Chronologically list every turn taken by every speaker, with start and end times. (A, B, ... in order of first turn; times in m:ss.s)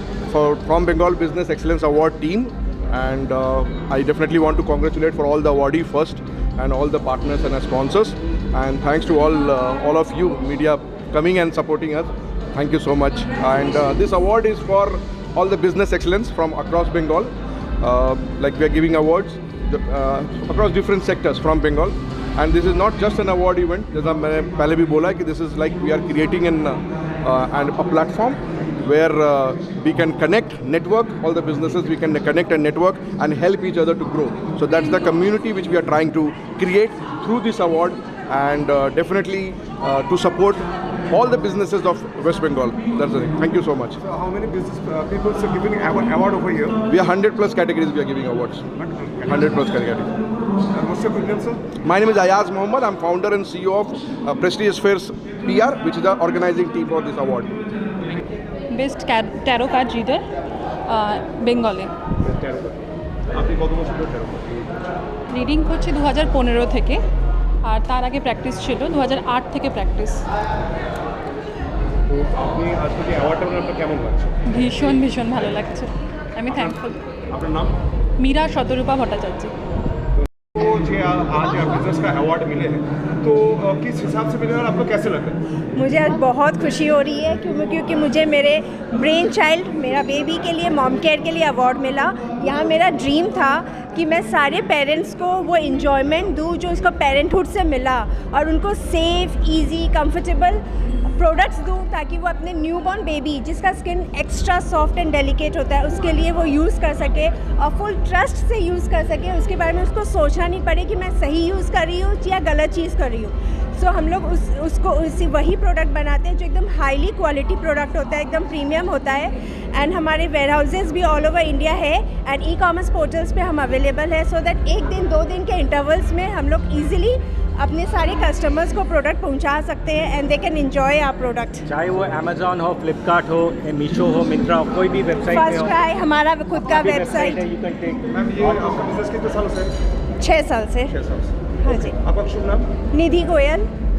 0:00.3-0:44.0 A
0:44.1-0:46.7 B
0:46.9-0:48.6 A
0:49.2-0:50.1 A
0:50.7-0:51.6 B
0:51.7-0:57.5 A
0:58.7-1:00.2 C
1:00.9-1:01.9 C
1:03.4-1:04.4 B
1:05.3-1:07.0 C
1:07.6-1:10.2 C
1:12.3-1:14.3 B
1:14.5-1:17.0 C
1:17.4-1:17.7 B
1:18.2-1:19.5 C
1:20.6-1:25.4 B
1:25.7-1:40.6 D
1:41.1-2:11.7 D
2:11.7-2:15.7 E
2:15.3-2:17.4 D
2:16.7-2:18.0 E
2:18.2-2:19.7 B
2:20.2-2:21.0 D
2:21.6-2:21.9 D
2:22.0-2:22.6 B
2:22.9-2:23.7 D